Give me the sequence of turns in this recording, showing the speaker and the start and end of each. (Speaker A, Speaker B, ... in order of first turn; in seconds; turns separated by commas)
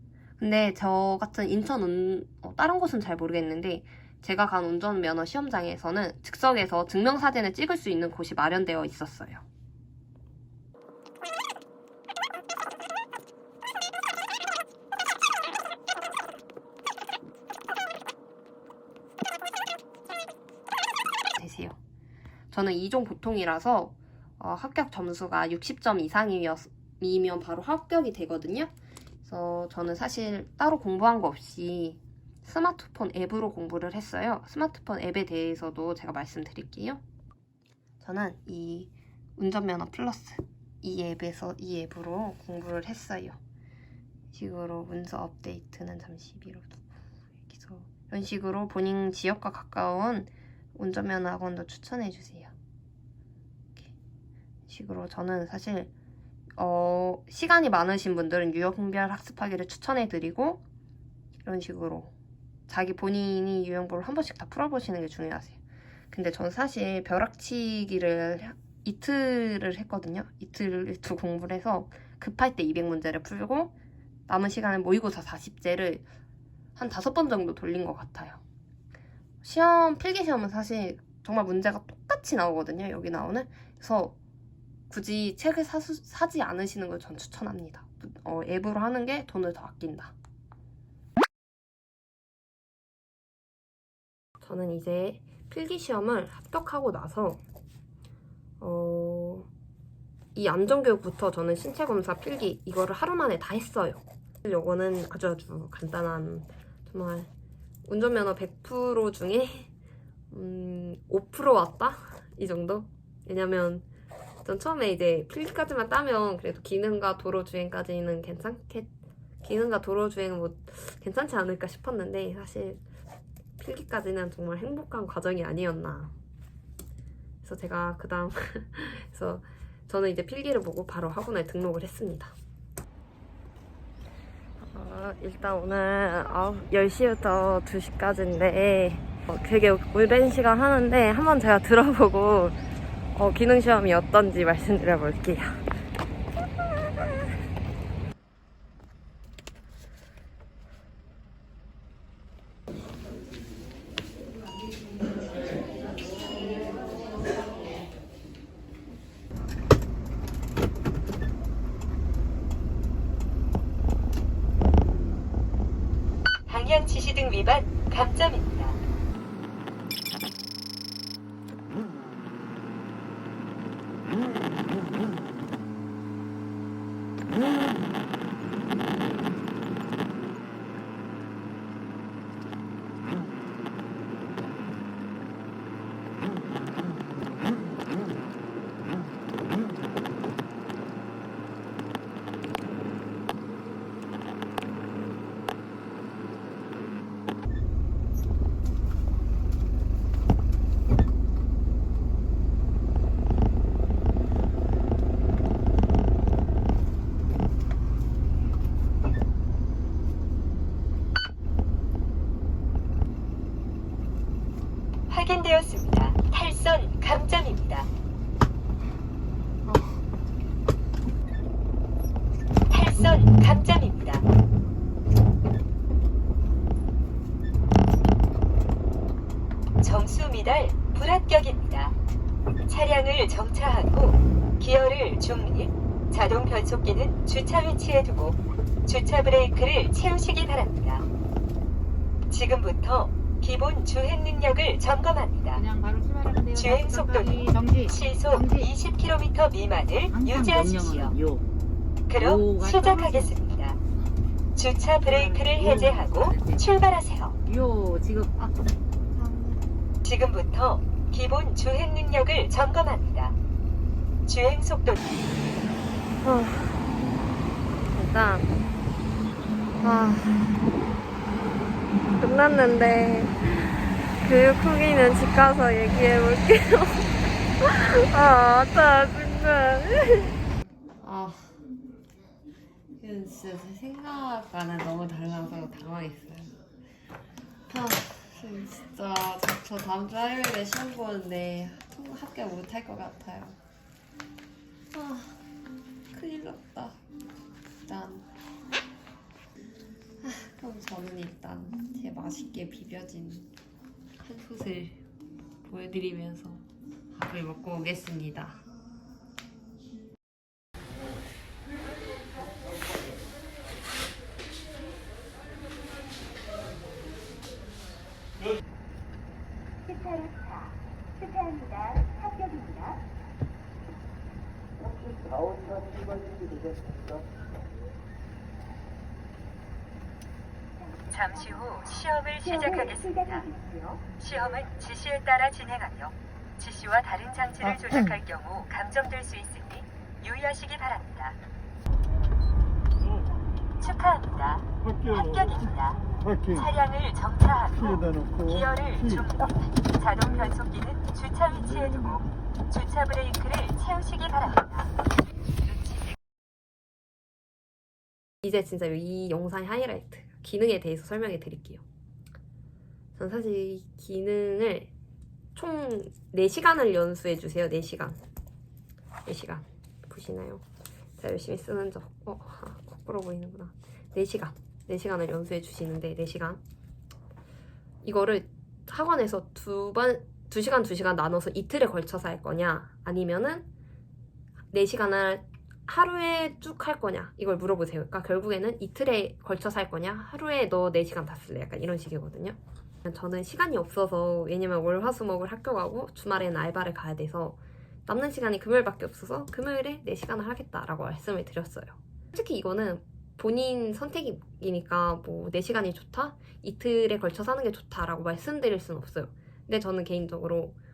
Speaker A: 0.4-9.4, Speaker A: 21.4-21.8, Speaker A: 22.5-28.7, Speaker A: 29.2-37.0, Speaker A: 38.0-43.4, Speaker A: 44.3-52.5, Speaker A: 54.7-55.9, Speaker A: 56.6-60.6, Speaker A: 61.4-62.1, Speaker A: 62.7-65.6, Speaker A: 66.1-73.7, Speaker A: 74.3-76.1, Speaker A: 76.8-78.4, Speaker A: 79.4-84.2, Speaker A: 84.9-90.1, Speaker A: 94.4-97.4, Speaker A: 98.6-99.5, Speaker A: 100.3-107.3, Speaker A: 107.9-109.7, Speaker A: 110.3-113.9, Speaker A: 114.4-118.9, Speaker A: 119.4-122.8, Speaker A: 123.6-126.1, Speaker A: 127.4-132.3, Speaker A: 134.6-142.6, Speaker A: 143.2-145.6, Speaker B: 166.5-168.8, Speaker B: 215.1-217.9, Speaker A: 219.7-220.0, Speaker B: 222.7-224.3, Speaker B: 229.8-231.9, Speaker B: 232.7-241.1, Speaker B: 242.3-245.6, Speaker C: 245.6-248.7, Speaker B: 246.6-251.2, Speaker C: 250.1-251.4, Speaker B: 252.1-253.8, Speaker C: 252.2-253.4, Speaker B: 254.6-257.4, Speaker C: 255.1-256.6, Speaker C: 257.4-258.5, Speaker A: 259.1-259.6, Speaker B: 260.0-263.4, Speaker B: 264.2-265.2, Speaker A: 266.2-266.9, Speaker A: 267.9-268.5, Speaker A: 269.8-270.6, Speaker A: 272.2-280.4, Speaker A: 281.0-281.6, Speaker A: 283.0-286.6, Speaker A: 287.7-293.6, Speaker A: 294.9-295.4, Speaker A: 296.1-297.0, Speaker A: 297.9-298.3, Speaker A: 300.2-303.5, Speaker A: 304.2-305.0, Speaker A: 305.6-308.6, Speaker B: 331.0-341.4, Speaker B: 343.8-354.9, Speaker A: 358.4-361.8, Speaker A: 363.2-364.9, Speaker A: 365.6-368.2, Speaker A: 369.3-370.6, Speaker A: 371.2-376.6, Speaker A: 378.0-383.7, Speaker A: 384.7-410.8